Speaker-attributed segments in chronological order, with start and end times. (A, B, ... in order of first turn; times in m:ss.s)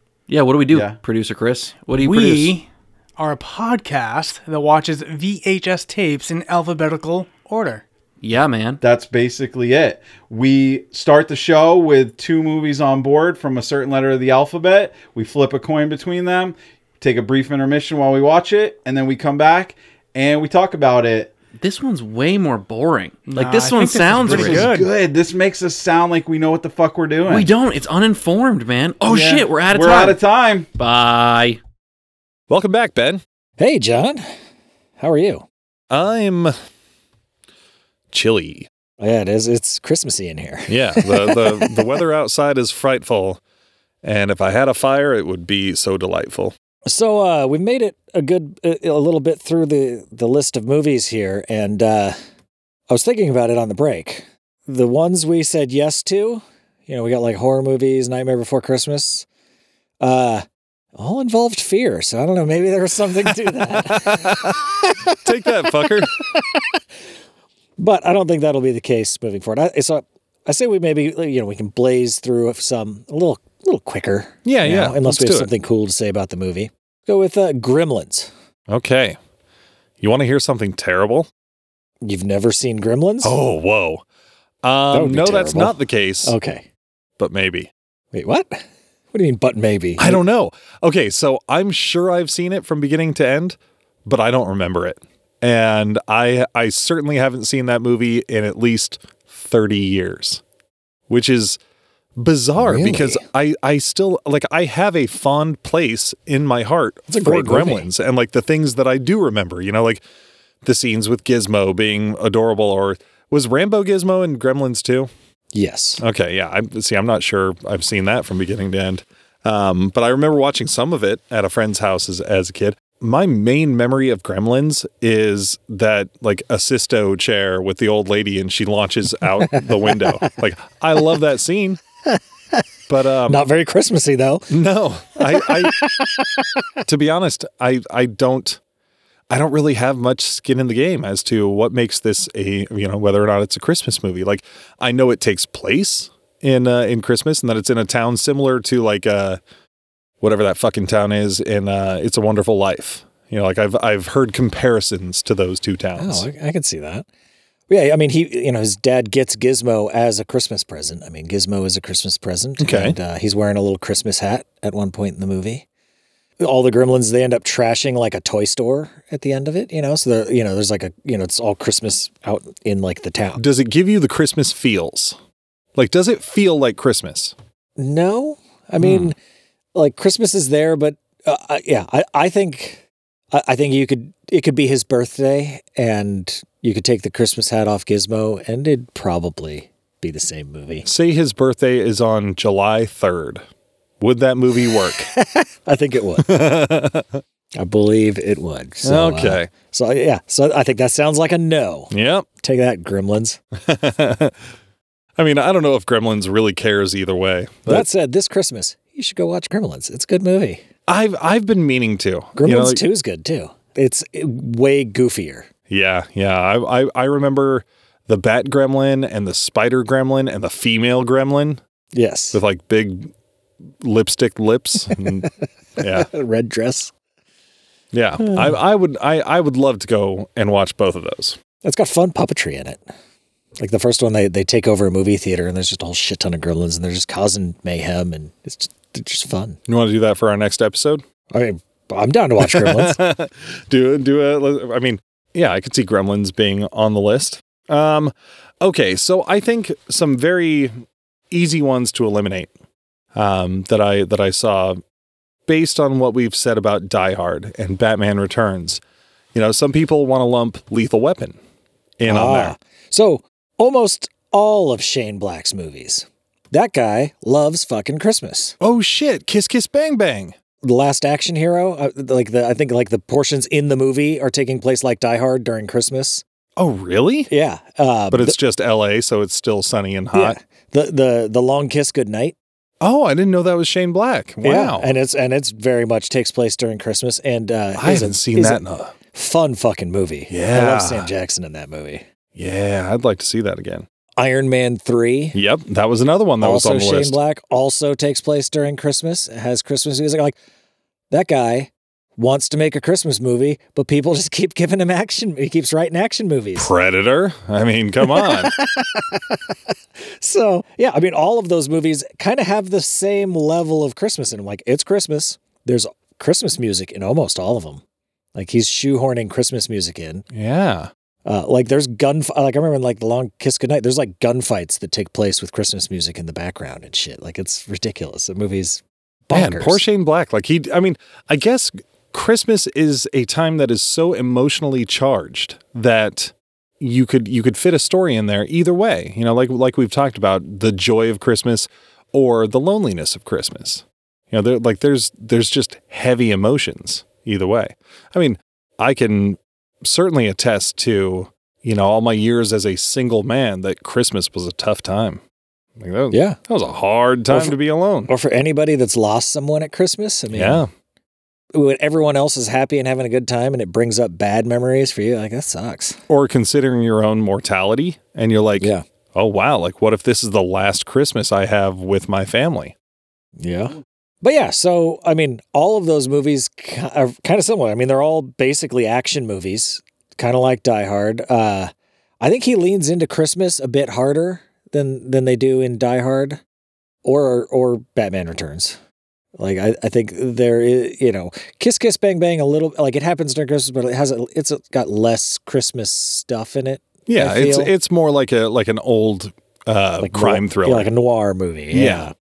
0:00.3-0:02.5 A
0:00.7-0:01.0 B
0:01.9-0:07.8 C
0:08.2-0:08.8 A
0:08.8-0:21.3 B
0:21.6-0:24.7 A
0:23.3-0:24.9 C
0:24.2-0:27.5 B
0:27.2-0:30.2 A
0:29.0-0:30.7 B
0:30.8-0:31.6 A
0:32.5-0:33.2 D
0:33.6-0:34.2 E
0:35.0-0:35.4 E
0:35.9-0:36.5 D
0:38.1-0:38.7 D
0:39.0-0:41.9 E
0:40.7-0:43.4 D
0:44.0-0:46.5 D
0:46.8-0:52.2 E
0:52.9-0:59.2 E
1:00.0-1:00.4 E
1:01.0-1:06.8 E
1:03.9-1:06.1 D
1:07.8-1:18.3 E
1:14.4-1:15.5 D
1:18.7-1:19.2 D
1:20.0-1:21.3 D
1:22.0-1:23.4 E
1:23.2-1:24.0 D
1:24.6-1:26.3 D
1:24.9-1:26.6 E
1:27.2-1:27.7 D
1:28.1-1:30.2 E
1:30.0-1:40.4 D
1:41.1-1:41.6 D
1:42.2-1:50.0 D
1:42.6-1:43.2 E
1:47.1-1:47.9 E
1:50.6-1:55.1 D
1:55.5-1:56.0 E
1:56.0-2:11.8 D
2:09.5-2:10.3 E
2:12.1-2:12.6 E
2:12.9-2:13.4 D
2:13.2-2:14.5 E
2:14.5-2:15.8 D
2:15.2-2:16.4 E
2:16.8-2:18.6 D
2:19.3-2:29.4 D
2:30.2-2:36.3 D
2:36.0-2:37.0 E
2:37.7-2:45.6 E
2:42.6-2:43.0 D
2:46.4-2:53.4 E
2:53.4-2:55.2 D
2:55.8-2:57.3 D
2:57.8-2:59.2 E
2:58.8-2:59.1 D
2:59.7-3:10.9 E
3:10.8-3:13.4 D
3:14.0-3:15.1 D
3:14.9-3:16.4 E
3:16.2-3:17.2 D
3:17.6-3:23.4 E
3:18.8-3:19.5 D
3:21.9-3:22.2 D
3:23.6-3:24.4 D
3:25.2-3:27.9 D
3:27.6-3:30.6 E
3:30.9-3:32.8 D
3:32.4-3:35.5 E
3:35.7-3:41.6 D
3:41.9-3:42.4 E
3:42.3-3:43.1 D
3:43.8-3:46.1 D
3:45.8-3:46.9 E
3:47.9-3:51.4 D
3:48.2-3:48.5 E
3:51.6-3:52.8 E
3:53.6-3:59.6 E
3:59.7-4:01.0 D
4:01.3-4:03.0 E
4:02.4-4:10.7 D
4:11.3-4:12.5 D
4:13.1-4:14.8 D
4:15.5-4:18.8 D
4:19.3-4:21.4 D
4:22.0-4:22.5 D
4:22.0-4:28.6 E
4:28.6-4:30.3 D
4:30.6-4:36.2 E
4:36.6-4:37.3 D
4:37.3-4:38.4 E
4:38.1-4:40.4 D
4:40.1-4:42.4 E
4:42.8-4:44.9 D
4:44.4-4:52.0 E
4:47.8-4:48.9 D
4:50.3-4:51.1 D
4:52.3-4:53.8 D
4:54.2-4:55.4 E
4:55.3-4:57.2 D
4:56.4-5:00.4 E
5:01.1-5:06.7 E
5:06.6-5:08.5 D
5:08.0-5:09.4 E
5:10.0-5:17.8 E
5:18.3-5:20.2 E
5:20.3-5:20.9 D
5:21.2-5:29.8 E
5:29.3-5:55.2 D
5:55.8-5:58.1 D
5:56.1-5:56.4 E
5:57.3-5:57.5 E
5:58.1-6:00.6 E
6:00.3-6:00.7 D
6:01.5-6:06.0 E
6:06.1-6:12.7 D
6:13.4-6:26.4 E
6:27.0-6:28.8 E
6:29.4-6:37.7 E
6:37.1-6:40.9 D
6:40.0-6:42.1 E
6:41.7-6:42.1 D